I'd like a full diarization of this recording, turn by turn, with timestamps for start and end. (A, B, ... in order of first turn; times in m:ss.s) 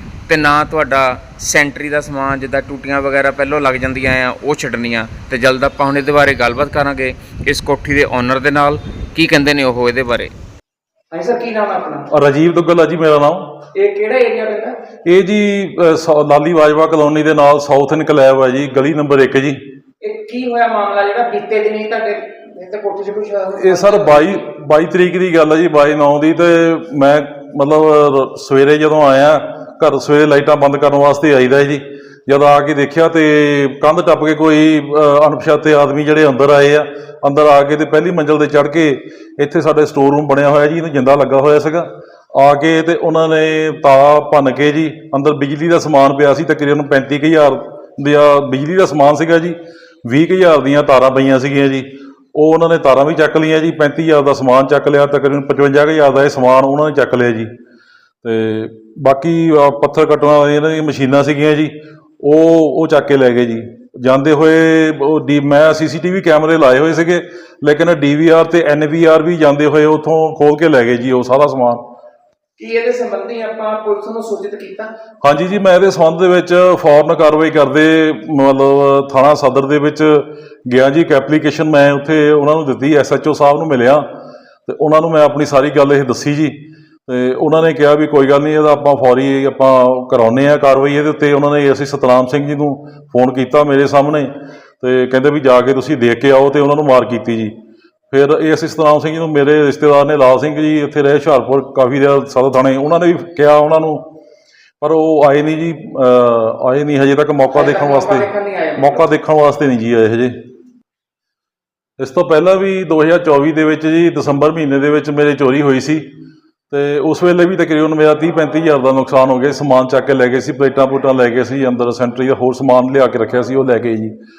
0:00.3-0:10.3 A
0:11.1-0:12.1 B
0:12.1-0:13.6 C
0:13.7-0:14.7 B
0:15.0-0:19.6 C
0:20.0-0:24.4 B
0:23.6-0:57.5 C
0:58.2-1:11.8 C
1:12.6-1:14.9 B
1:15.2-1:24.0 C
1:24.6-1:37.5 C
1:38.1-1:44.1 C
1:44.8-1:50.3 C
1:47.5-1:49.1 B
1:52.0-1:56.0 C
1:56.7-2:04.1 C